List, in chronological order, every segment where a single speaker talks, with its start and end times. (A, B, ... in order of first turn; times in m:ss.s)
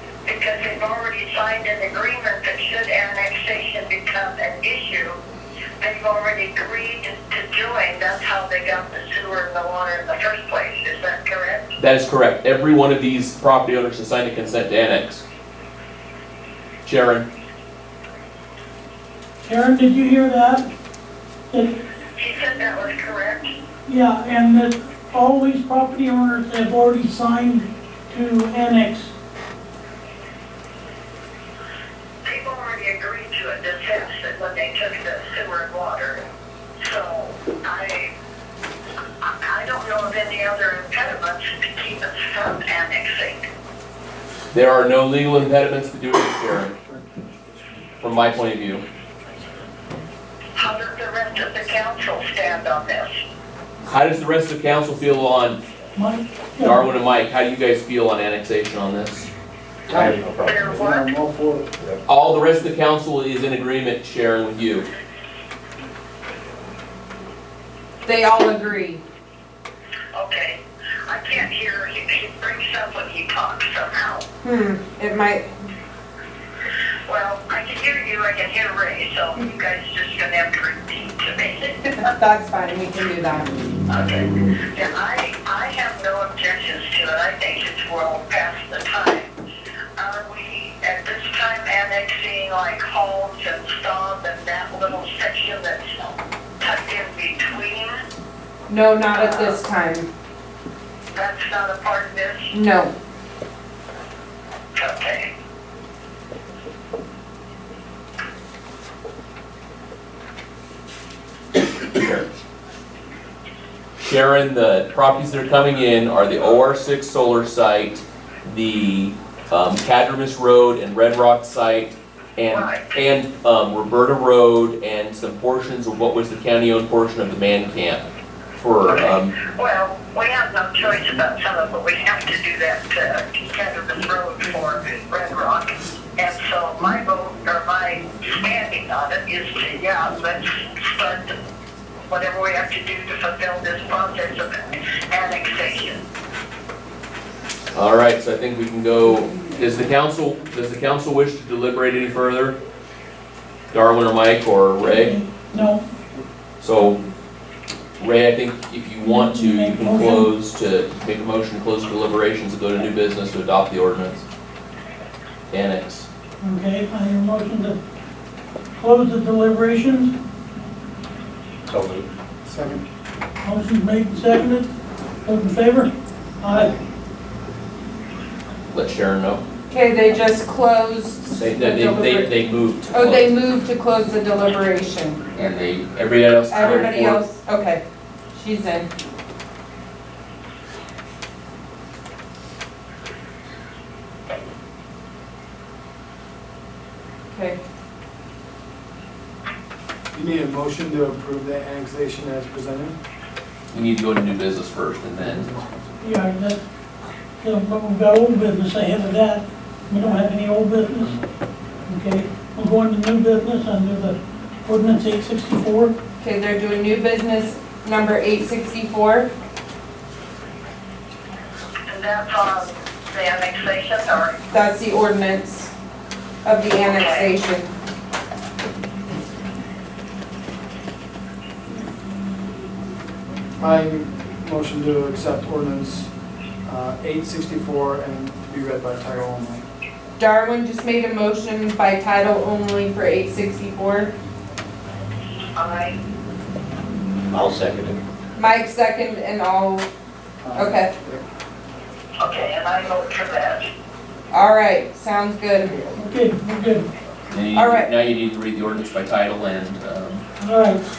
0:00.2-0:05.2 A
0:05.8-0:11.7 A
0:11.8-0:15.2 B
0:16.8-0:17.3 B
0:19.4-0:20.7 C
0:21.5-0:21.8 C
0:22.2-0:23.6 A
0:23.8-0:29.1 C
0:32.2-0:36.2 A
0:36.8-0:38.1 A
0:39.2-0:43.5 A
0:44.5-0:46.7 B
0:48.0-0:48.8 B
0:50.6-0:53.2 A
0:53.8-0:55.6 B
0:55.9-0:56.8 C
0:56.6-0:59.3 B
0:59.9-1:00.2 D
0:59.9-1:00.9 E
1:00.4-1:01.1 A
1:00.8-1:01.7 D
1:02.0-1:04.9 B
1:08.0-1:09.0 F
1:10.1-1:14.2 A
1:14.4-1:15.4 F
1:17.1-1:21.9 A
1:21.9-1:23.5 F
1:23.9-1:29.3 A
1:30.0-1:38.0 A
1:38.7-1:40.1 F
1:39.1-1:39.6 A
1:41.1-1:42.5 A
1:42.5-1:42.9 F
1:44.7-1:45.3 A
1:51.9-1:52.3 B
1:54.0-2:08.0 B
2:02.5-2:02.9 A
2:08.6-2:09.3 B
2:08.8-2:21.3 A
2:22.0-2:26.0 A
2:27.7-2:32.5 B
2:33.7-2:35.1 B
2:34.8-2:35.8 C
2:36.6-2:37.0 B
2:38.0-2:44.2 B
2:39.0-2:40.3 C
2:45.5-2:46.1 B
2:46.4-2:47.8 C
2:48.8-2:50.1 C
2:51.7-2:52.1 E
2:52.4-2:52.8 D
2:53.4-2:54.7 C
2:55.2-2:56.7 C
2:58.7-2:59.4 B
2:59.7-3:02.3 F
3:01.3-3:03.3 B
3:02.9-3:05.5 F
3:05.3-3:07.2 B
3:06.5-3:07.8 F
3:08.3-3:08.9 F
3:17.3-3:17.6 F
3:20.1-3:22.9 D
3:23.7-3:25.5 B
3:25.2-3:25.8 D
3:26.0-3:26.6 C
3:27.4-3:31.2 C
3:31.8-3:35.9 C
3:36.2-3:39.3 F
3:41.9-3:44.4 A
3:44.5-3:45.7 F
3:46.4-3:47.6 F
3:46.8-3:47.3 A
3:53.6-3:56.1 D
3:56.6-3:59.6 D
4:00.2-4:04.1 F
4:05.6-4:06.0 A
4:07.3-4:08.0 E
4:08.4-4:09.9 F
4:10.4-4:11.2 D
4:10.5-4:10.9 F
4:12.2-4:13.7 A
4:14.3-4:15.8 F
4:16.0-4:16.9 C
4:17.3-4:20.2 B
4:17.5-4:17.9 F
4:20.4-4:20.8 C